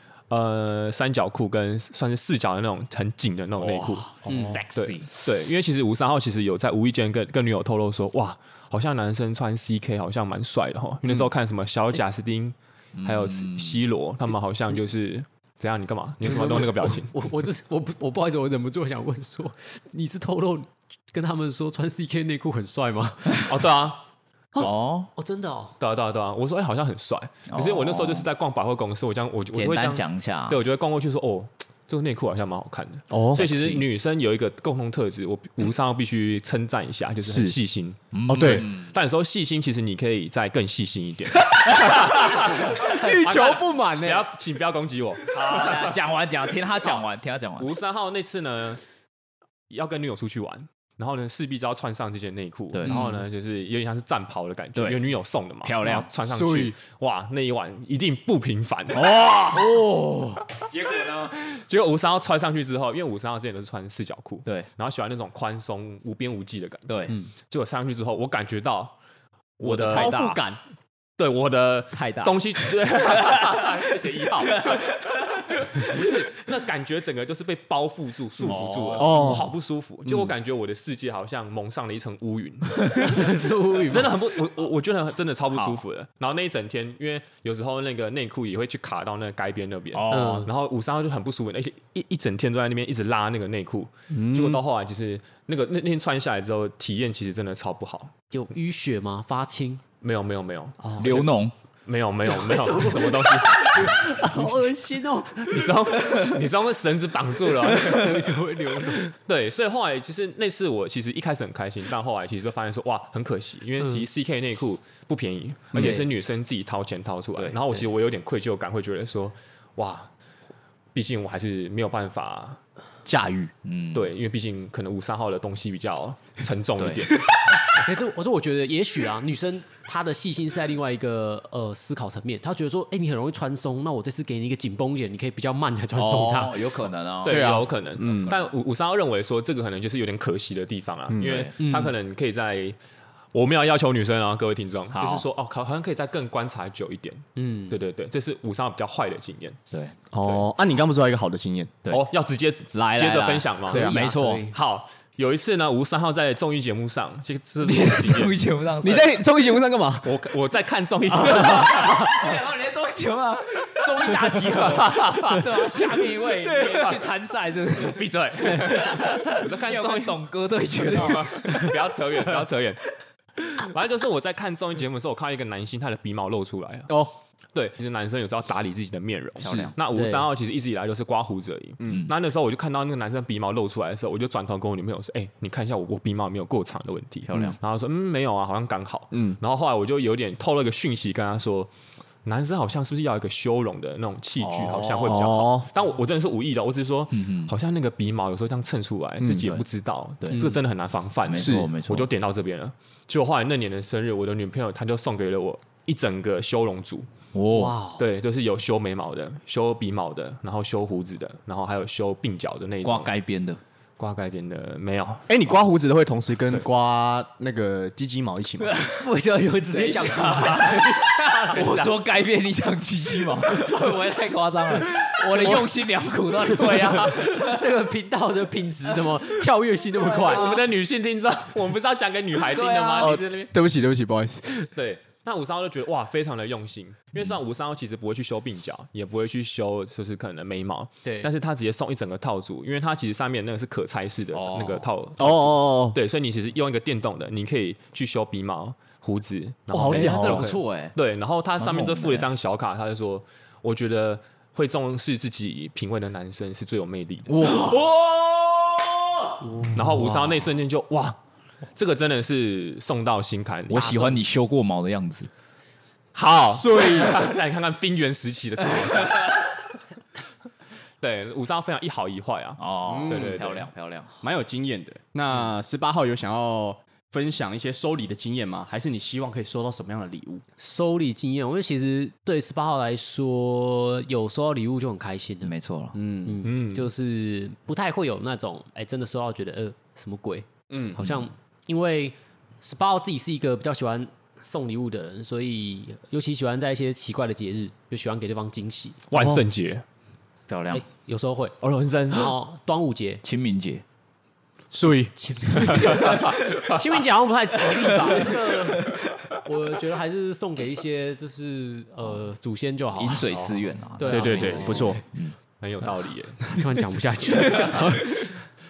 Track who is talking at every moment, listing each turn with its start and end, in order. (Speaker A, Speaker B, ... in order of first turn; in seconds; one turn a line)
Speaker A: 0.3-4.1
Speaker B: 3.6-5.1
Speaker C: 4.2-4.6
Speaker D: 4.3-4.6
Speaker A: 4.7-17.1
Speaker B: 12.9-13.8
Speaker D: 16.2-23.7
Speaker A: 23.5-24.0
Speaker D: 24.5-25.8
Speaker B: 24.6-25.1
Speaker A: 25.8-46.0
Speaker B: 27.5-28.3
Speaker B: 29.5-30.6
Speaker C: 33.1-33.4
Speaker B: 33.3-33.8
Speaker C: 37.3-37.5
Speaker B: 38.1-38.9
Speaker C: 38.3-38.6
Speaker C: 42.8-44.2
Speaker B: 45.3-47.7
Speaker A: 47.6-48.8
Speaker A: 49.7-59.1
Speaker B: 52.7-53.2
Speaker B: 54.7-55.0
Speaker B: 55.6-56.1
Speaker C: 56.3-56.7
Speaker B: 58.9-59.8
Speaker D: 59.5-60.4
Speaker B: 60.7-61.3
Speaker A: 61.2-69.0
Speaker B: 66.9-67.2
Speaker A: 69.6-70.1
Speaker B: 69.6-70.4
Speaker C: 69.9-70.6
Speaker A: 71.2-83.3
Speaker B: 71.9-76.0
Speaker B: 78.4-79.3
Speaker C: 79.0-79.5
Speaker C: 80.0-80.3
Speaker D: 82.9-84.1
Speaker A: 83.8-98.1
Speaker B: 85.5-85.8
Speaker B: 89.9-90.5
Speaker D: 90.1-90.5
Speaker C: 94.1-94.6
Speaker D: 98.3-99.8
Speaker A: 100.0-104.7
Speaker B: 101.0-101.5
Speaker D: 102.2-105.8
Speaker A: 105.4-120.1
Speaker D: 107.5-109.1
Speaker D: 113.8-114.0
Speaker B: 115.7-116.0
Speaker D: 115.8-116.1
Speaker A: 120.9-122.6
Speaker C: 123.0-123.5
Speaker B: 123.6-124.1
Speaker A: 123.9-127.2
Speaker B: 126.8-127.1
Speaker D: 127.7-136.7
Speaker B: 135.9-137.6
Speaker A: 137.2-142.8
Speaker C: 137.3-138.3
Speaker C: 141.1-141.4
Speaker B: 141.2-141.6
Speaker D: 141.6-141.9
Speaker A: 143.3-149.6
Speaker B: 144.9-145.2
Speaker D: 147.4-147.8
Speaker C: 150.1-151.8
Speaker A: 151.9-158.4
Speaker B: 152.7-154.5
Speaker D: 153.7-154.5
Speaker C: 153.7-154.0
Speaker B: 157.6-159.2
Speaker C: 158.8-160.1
Speaker A: 160.0-162.0
Speaker B: 161.2-171.7
Speaker A: 164.6-165.4
Speaker A: 166.7-167.0
Speaker A: 167.8-170.2
Speaker A: 170.9-176.9
Speaker A: 177.5-191.7
Speaker B: 179.4-179.7
Speaker D: 179.9-180.2
Speaker C: 181.8-182.1
Speaker B: 187.2-187.6
Speaker C: 189.1-189.4
Speaker A: 192.2-207.1
Speaker B: 194.4-195.3
Speaker C: 195.0-195.7
Speaker B: 197.1-197.5
Speaker B: 199.3-199.6
Speaker B: 200.2-200.5
Speaker D: 200.3-200.6
Speaker B: 201.3-202.1
Speaker C: 201.4-201.7
Speaker B: 207.3-207.8
Speaker D: 207.5-208.0
Speaker A: 207.9-213.1
Speaker B: 212.8-213.6
Speaker A: 214.0-215.4
Speaker C: 215.3-218.8
Speaker B: 218.6-219.1
Speaker D: 219.0-221.9
Speaker B: 219.7-220.9
Speaker B: 221.5-227.6
Speaker D: 225.1-225.7
Speaker D: 226.4-230.6
Speaker A: 226.9-227.3
Speaker B: 230.0-230.4
Speaker A: 230.2-233.5
Speaker B: 232.5-233.1
Speaker C: 233.0-234.7
Speaker A: 234.8-257.4
Speaker B: 244.3-244.9
Speaker C: 245.2-246.0
Speaker C: 249.7-250.5
Speaker B: 249.9-251.0
Speaker B: 251.6-252.3
Speaker C: 257.3-259.2
Speaker D: 259.5-260.1
Speaker A: 259.7-261.2
Speaker A: 261.7-263.9
Speaker B: 263.7-265.3
Speaker A: 266.1-269.7
Speaker C: 266.5-267.2
Speaker A: 271.0-273.7
Speaker B: 272.6-274.2
Speaker C: 272.9-273.3
Speaker C: 274.2-280.4
Speaker D: 280.6-299.4
Speaker B: 285.4-285.9
Speaker A: 286.4-286.9
Speaker C: 290.7-291.0
Speaker A: 299.1-299.8
Speaker B: 300.5-300.8
Speaker D: 300.7-301.6
Speaker A: 301.6-302.3
Speaker D: 302.1-303.2
Speaker B: 303.2-303.8
Speaker C: 304.7-305.1
Speaker D: 305.1-315.0
Speaker A: 305.6-306.8
Speaker B: 307.8-308.5
Speaker B: 313.0-315.4
Speaker C: 314.1-315.0
Speaker A: 315.6-316.5
Speaker D: 316.5-318.4